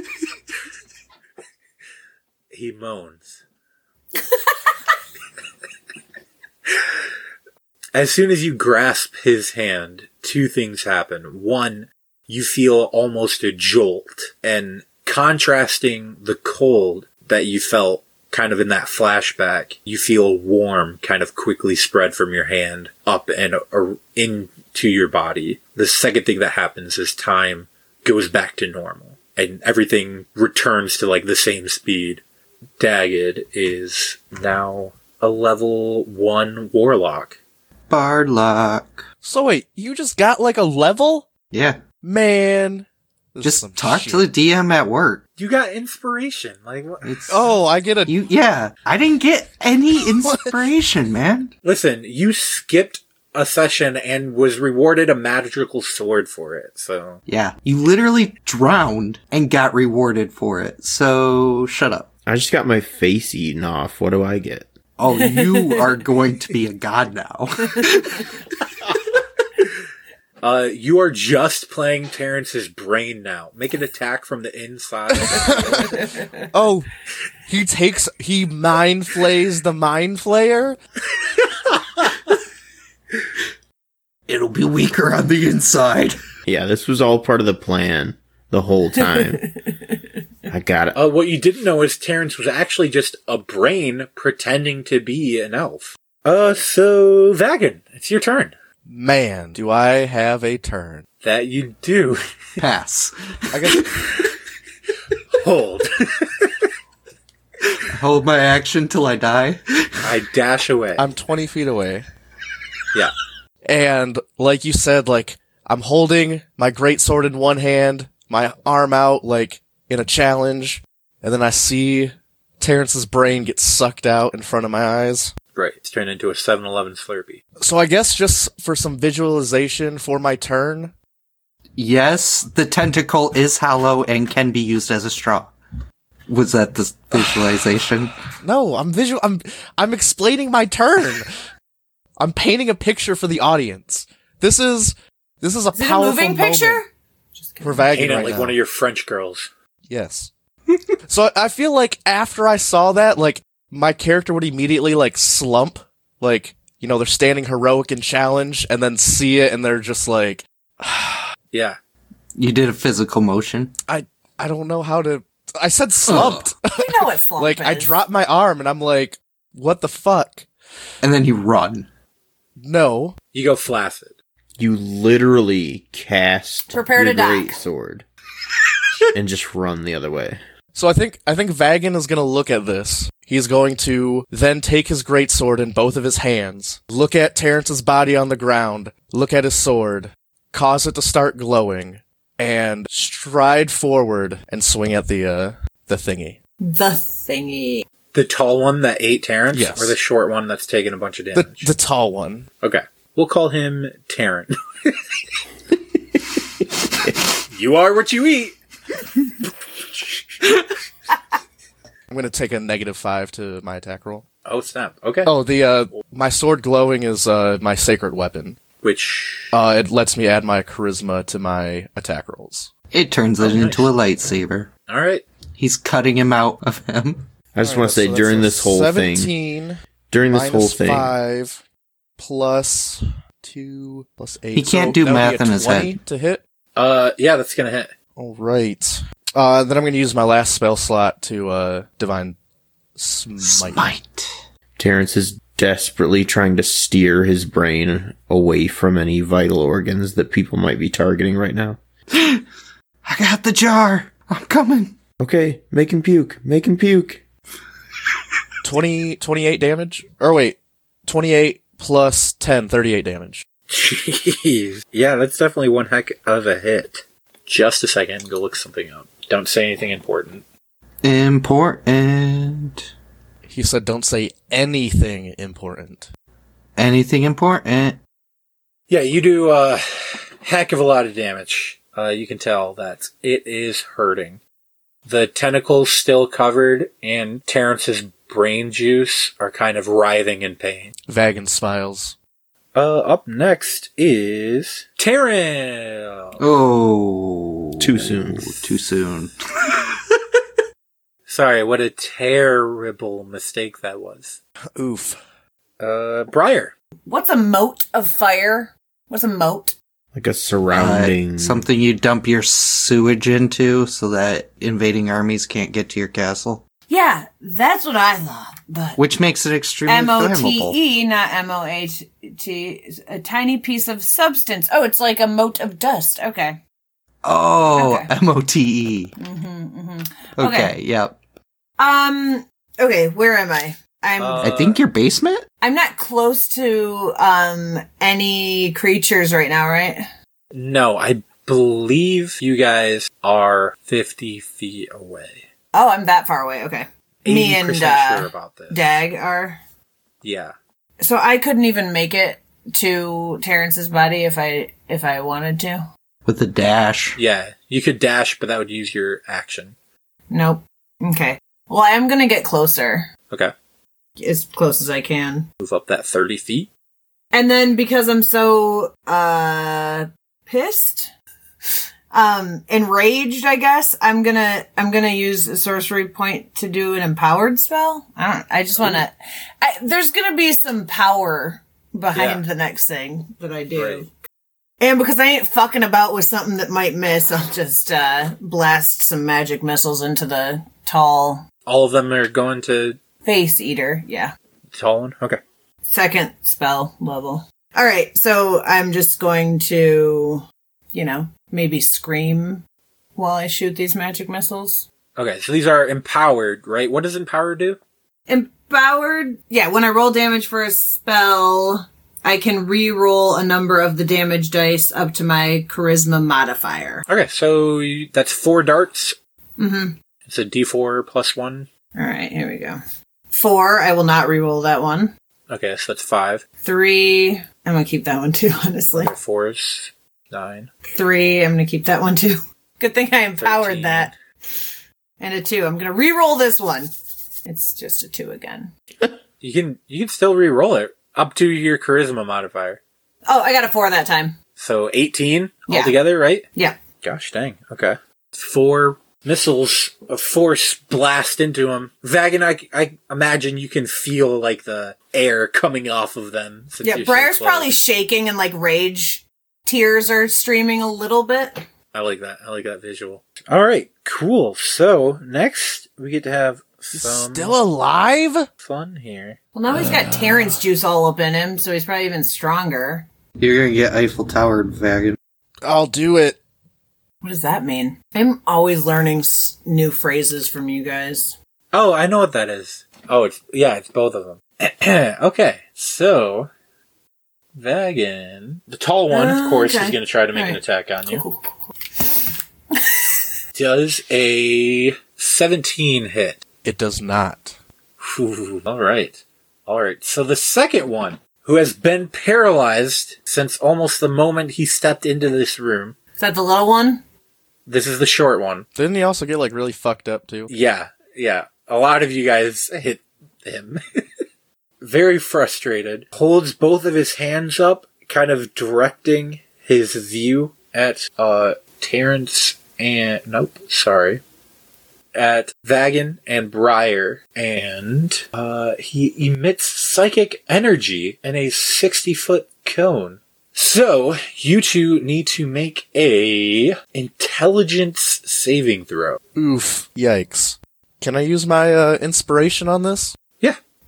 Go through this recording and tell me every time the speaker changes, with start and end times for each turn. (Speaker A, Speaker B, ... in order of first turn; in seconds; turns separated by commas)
Speaker A: 2.5-3.4, Speaker A: 7.9-32.2, Speaker A: 32.8-37.4, Speaker B: 37.9-39.0, Speaker C: 39.2-41.3, Speaker B: 41.5-41.8, Speaker C: 42.0-44.3, Speaker B: 43.4-45.2, Speaker A: 45.4-47.2, Speaker B: 47.0-47.4, Speaker C: 47.3-48.1, Speaker B: 48.1-51.5, Speaker C: 50.2-50.5, Speaker A: 51.6-57.2, Speaker B: 57.3-62.1, Speaker D: 62.3-64.7, Speaker B: 65.0-68.3, Speaker E: 65.3-65.8, Speaker A: 70.4-76.1, Speaker C: 75.3-76.9, Speaker C: 77.5-80.8, Speaker B: 84.3-86.2, Speaker D: 86.5-89.5, Speaker D: 90.5-91.0, Speaker A: 91.0-98.5, Speaker C: 98.9-101.0, Speaker A: 101.2-102.2, Speaker B: 102.6-104.2, Speaker C: 103.5-103.8, Speaker A: 105.3-106.6, Speaker B: 107.8-110.1, Speaker A: 110.0-111.0, Speaker C: 111.0-112.1, Speaker C: 113.7-125.3, Speaker A: 125.5-127.4, Speaker C: 127.6-130.9, Speaker B: 131.8-135.5, Speaker B: 136.3-138.1, Speaker C: 138.4-141.3, Speaker C: 142.2-146.8, Speaker E: 145.7-148.0, Speaker C: 147.6-148.6, Speaker A: 147.9-149.5, Speaker C: 149.9-150.3, Speaker C: 151.1-161.2, Speaker A: 161.5-161.8, Speaker B: 162.3-163.7, Speaker C: 163.9-170.5, Speaker B: 166.1-166.5, Speaker E: 166.8-167.9, Speaker B: 171.0-171.9, Speaker C: 172.6-173.2, Speaker A: 173.3-174.2, Speaker D: 174.6-178.1, Speaker E: 176.7-177.6, Speaker D: 179.1-180.4, Speaker C: 180.8-196.4, Speaker E: 196.6-197.8, Speaker A: 198.1-201.7, Speaker C: 199.5-200.0, Speaker C: 201.3-202.4, Speaker A: 202.6-205.0, Speaker A: 207.5-208.6, Speaker C: 212.1-214.2, Speaker A: 214.4-215.3, Speaker C: 215.2-218.6, Speaker A: 218.8-219.5, Speaker C: 219.5-222.7, Speaker B: 222.9-224.7, Speaker A: 223.4-223.9, Speaker A: 224.9-225.2, Speaker B: 225.6-227.3, Speaker D: 227.5-229.3, Speaker C: 227.6-229.8, Speaker D: 230.1-231.2, Speaker C: 230.3-231.6, Speaker C: 232.2-236.4, Speaker B: 234.5-236.0, Speaker A: 236.8-237.9, Speaker C: 238.2-242.4, Speaker C: 243.0-243.9, Speaker B: 243.4-244.3, Speaker D: 244.8-251.8, Speaker B: 252.1-252.4, Speaker B: 253.0-255.0, Speaker D: 255.2-257.2, Speaker C: 258.6-263.4, Speaker A: 263.7-270.4, Speaker B: 271.0-272.9, Speaker C: 273.5-276.1, Speaker B: 276.8-278.0, Speaker A: 278.9-284.4, Speaker A: 285.1-290.9, Speaker C: 291.1-292.2, Speaker A: 292.8-296.4, Speaker B: 296.4-299.7, Speaker D: 297.8-298.6, Speaker A: 301.3-304.4, Speaker C: 304.8-305.2, Speaker A: 305.8-306.7, Speaker E: 307.1-309.8, Speaker D: 310.1-311.6, Speaker B: 310.7-316.6, Speaker E: 316.9-319.0, Speaker B: 319.0-320.8, Speaker E: 319.9-326.6, Speaker B: 327.2-329.1, Speaker E: 327.7-328.1, Speaker E: 329.2-330.7, Speaker B: 330.4-331.2, Speaker E: 331.8-334.5, Speaker A: 334.2-334.8, Speaker B: 334.4-335.4, Speaker E: 335.6-340.0, Speaker A: 340.5-345.4, Speaker E: 345.7-349.6, Speaker A: 347.2-348.9, Speaker A: 350.2-350.5, Speaker E: 351.0-355.8, Speaker B: 356.2-357.2, Speaker A: 357.2-359.8, Speaker E: 360.3-363.1, Speaker E: 364.2-365.5, Speaker A: 365.6-366.7, Speaker E: 367.3-371.1, Speaker E: 372.1-384.1, Speaker A: 378.8-379.1, Speaker A: 382.1-382.4, Speaker A: 383.8-384.0, Speaker E: 384.8-391.4, Speaker A: 391.7-393.0, Speaker E: 393.2-394.3, Speaker A: 394.7-395.4, Speaker E: 395.9-402.6, Speaker E: 403.2-404.9, Speaker A: 405.2-407.8, Speaker E: 408.3-417.0, Speaker A: 417.1-419.2, Speaker E: 419.6-419.9, Speaker A: 420.3-421.7, Speaker E: 421.9-422.8, Speaker E: 423.3-425.1, Speaker A: 425.5-426.4, Speaker E: 426.6-429.1, Speaker A: 429.0-430.7, Speaker E: 430.9-434.1, Speaker A: 433.4-434.1, Speaker E: 435.2-436.9, Speaker E: 437.5-438.7, Speaker A: 439.4-442.8, Speaker E: 443.3-444.4, Speaker A: 444.6-446.5, Speaker E: 445.7-446.0, Speaker A: 447.0-457.7, Speaker E: 456.8-461.6, Speaker A: 461.9-467.6, Speaker C: 466.9-468.5, Speaker A: 468.6-469.4, Speaker E: 469.5-473.1, Speaker C: 469.8-470.5, Speaker B: 473.4-475.2, Speaker C: 475.6-476.4, Speaker E: 477.2-481.4, Speaker A: 481.7-486.5, Speaker A: 487.6-491.2, Speaker E: 489.1-491.5, Speaker E: 492.8-493.1, Speaker A: 493.5-496.4, Speaker C: 496.6-497.6, Speaker A: 498.0-505.9, Speaker E: 506.2-507.0, Speaker A: 507.7-508.7, Speaker C: 508.8-510.5, Speaker A: 510.5-513.8, Speaker A: 514.8-524.2, Speaker A: 525.1-539.2, Speaker C: 539.4-543.2